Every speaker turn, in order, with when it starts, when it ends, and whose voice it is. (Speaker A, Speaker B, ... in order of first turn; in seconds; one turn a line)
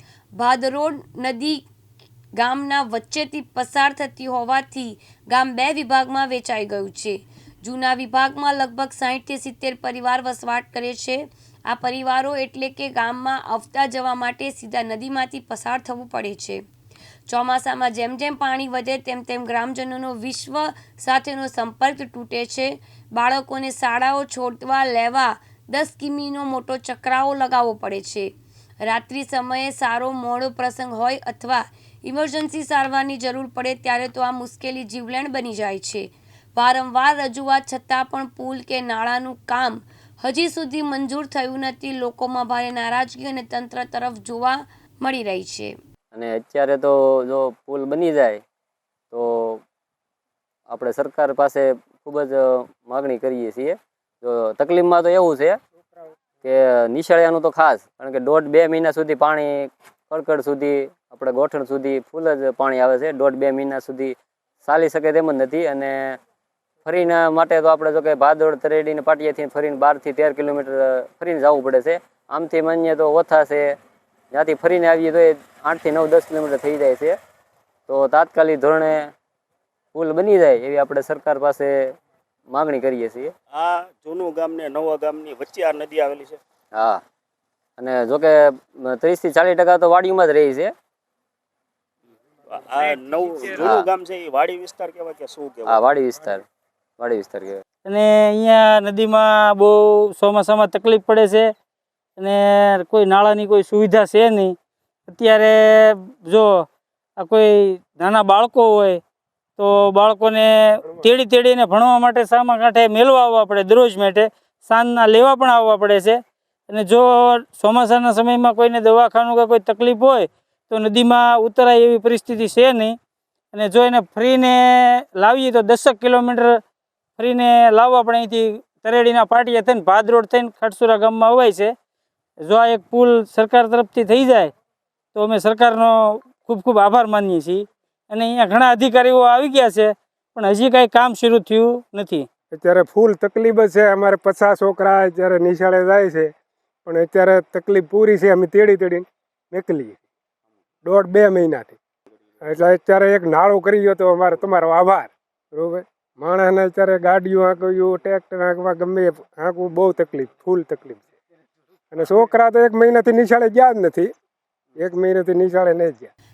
Speaker A: 0.4-1.6
Speaker A: 2.4-16.6
Speaker A: 17.3-28.3
Speaker A: 28.9-45.8
Speaker B: 46.1-48.4
Speaker B: 49.1-49.6
Speaker B: 50.7-55.6
Speaker B: 56.4-66.2
Speaker B: 66.8-73.8
Speaker B: 74.3-77.2
Speaker B: 77.9-79.1
Speaker B: 79.9-81.9
Speaker B: 82.5-83.3
Speaker C: 83.5-86.4
Speaker B: 86.7-87.0
Speaker B: 87.8-90.7
Speaker C: 92.5-95.8
Speaker B: 93.5-93.9
Speaker B: 95.7-96.4
Speaker B: 97.0-97.6
Speaker D: 97.8-101.5
Speaker D: 102.2-104.5
Speaker D: 105.1-106.6
Speaker D: 107.2-109.0
Speaker D: 109.6-123.0
Speaker D: 123.5-126.6
Speaker D: 127.2-131.7
Speaker D: 132.4-134.5
Speaker D: 135.2-142.3
Speaker E: 142.5-146.3
Speaker E: 146.9-150.0
Speaker E: 150.8-151.8
Speaker E: 152.4-161.1
Speaker E: 161.9-164.1
Speaker E: 164.8-166.1